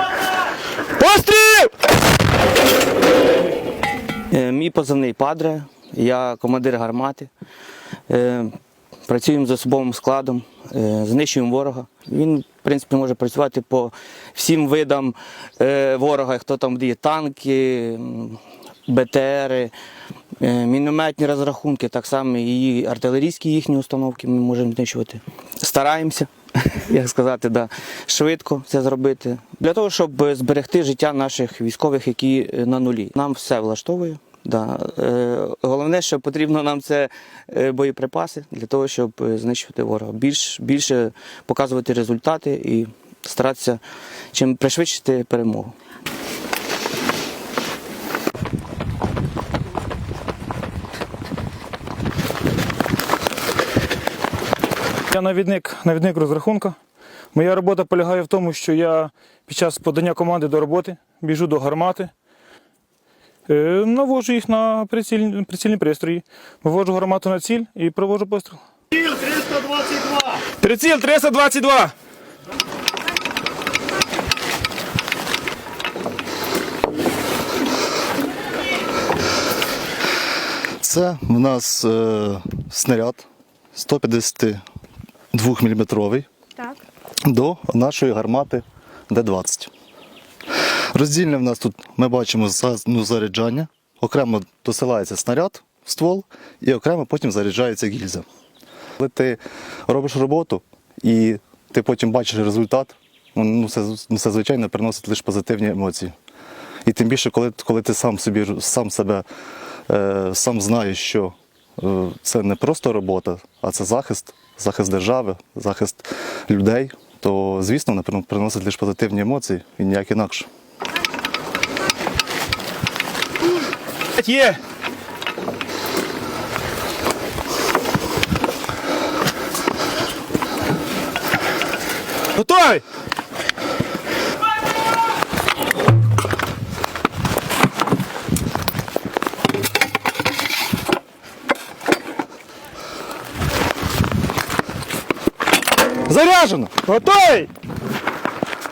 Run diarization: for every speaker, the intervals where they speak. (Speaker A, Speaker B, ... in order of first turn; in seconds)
Speaker A: 1.0-1.7, 4.3-7.3, 8.1-19.7, 20.4-45.7
Speaker B: 55.1-56.8, 57.3-62.1, 63.5-68.6, 70.4-71.9, 124.2-124.6, 132.4-132.8, 146.9-147.5
Speaker C: 80.8-84.6, 85.3-86.3, 87.3-89.7, 90.9-98.2, 99.0-106.1, 106.9-109.2, 109.9-120.5, 146.1-146.8